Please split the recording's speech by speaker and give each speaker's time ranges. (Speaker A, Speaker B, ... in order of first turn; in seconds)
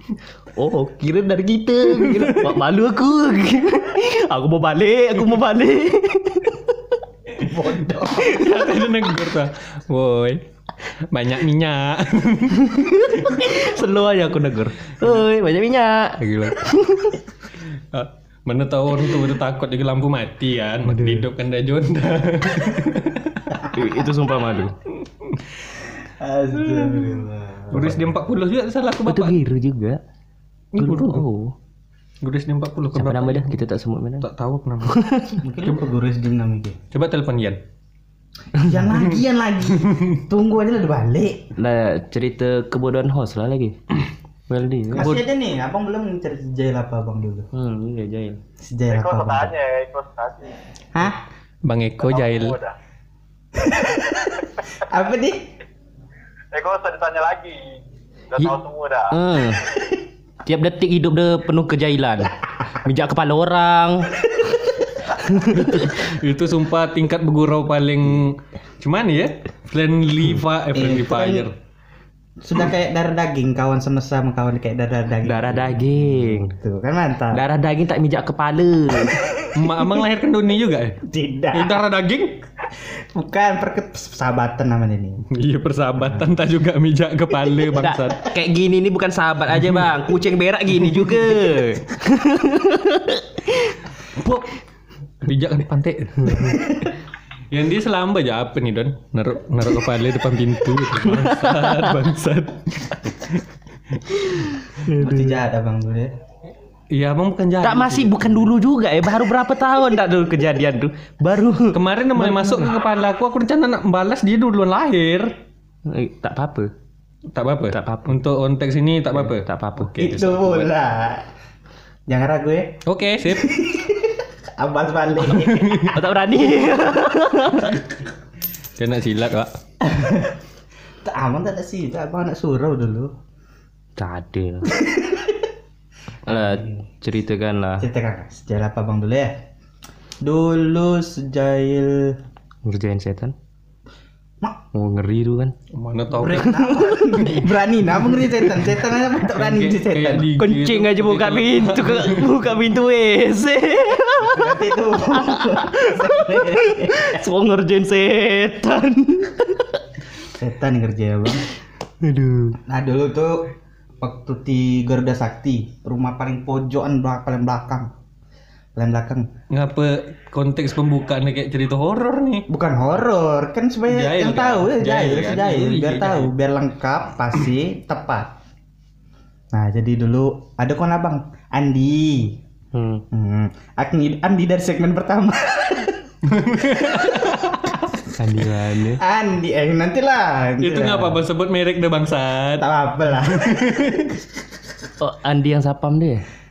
Speaker A: 0.6-7.0, 8.2-8.9, 12.6-17.2, 20.9-21.3, 23.6-24.8, 29.1-30.0, 30.8-31.6, 32.9-34.3, 34.9-35.4, 41.6-43.8, 44.5-45.1, 47.5-48.4, 59.1-59.6, 60.5-64.3, 65.2-66.0, 75.2-76.6, 77.3-79.3, 87.8-93.8, 96.2-96.6, 100.9-102.0, 104.2-105.4, 107.6-112.7, 115.9-116.7, 117.7-118.2, 119.1-119.9, 125.9-127.8, 134.0-134.8, 136.3-137.9, 142.7-143.3, 144.7-145.6, 146.3-147.4, 150.4-159.8, 162.0-162.6, 182.7-183.0, 188.2-189.0, 195.0-196.3
Speaker B: 2.2-2.5, 8.1-10.4, 11.1-13.6, 17.9-23.5, 26.6-29.4, 30.7-31.2, 32.2-33.6, 34.2-35.8, 36.9-37.6, 45.0-45.2, 51.6-52.6, 65.5-71.5, 79.5-81.0, 81.5-82.4, 85.3-88.2, 94.2-94.5, 95.2-96.8, 97.5-103.4, 106.9-108.4, 111.7-115.4, 117.3-120.7, 122.9-123.5, 125.3-125.9, 128.8-129.5, 145.7-146.6, 147.2-147.5, 149.3-152.4, 169.5-172.4, 173.9-176.3, 186.2-187.7, 190.6-192.7, 193.4-194.1
Speaker C: 7.4-8.4, 26.2-28.1, 35.4-36.8, 38.5-41.5, 44.9-47.5, 48.6-49.5, 50.9-51.2, 53.6-55.5, 70.7-71.5, 72.4-77.4, 81.0-81.8, 82.9-85.2, 105.0-106.2, 120.0-121.3, 122.1-126.0, 129.8-130.4, 131.0-133.1, 134.7-135.5, 136.3-136.8, 137.8-139.4, 140.2-142.2, 146.2-150.3, 154.2-157.2, 160.3-161.4, 162.7-167.9, 168.8-169.3, 172.5-178.3, 179.5-182.4, 183.1-186.0, 188.8-191.2, 192.6-194.1
Speaker D: 48.9-50.6, 52.0-52.8, 53.9-54.5, 56.5-57.6, 58.3-59.5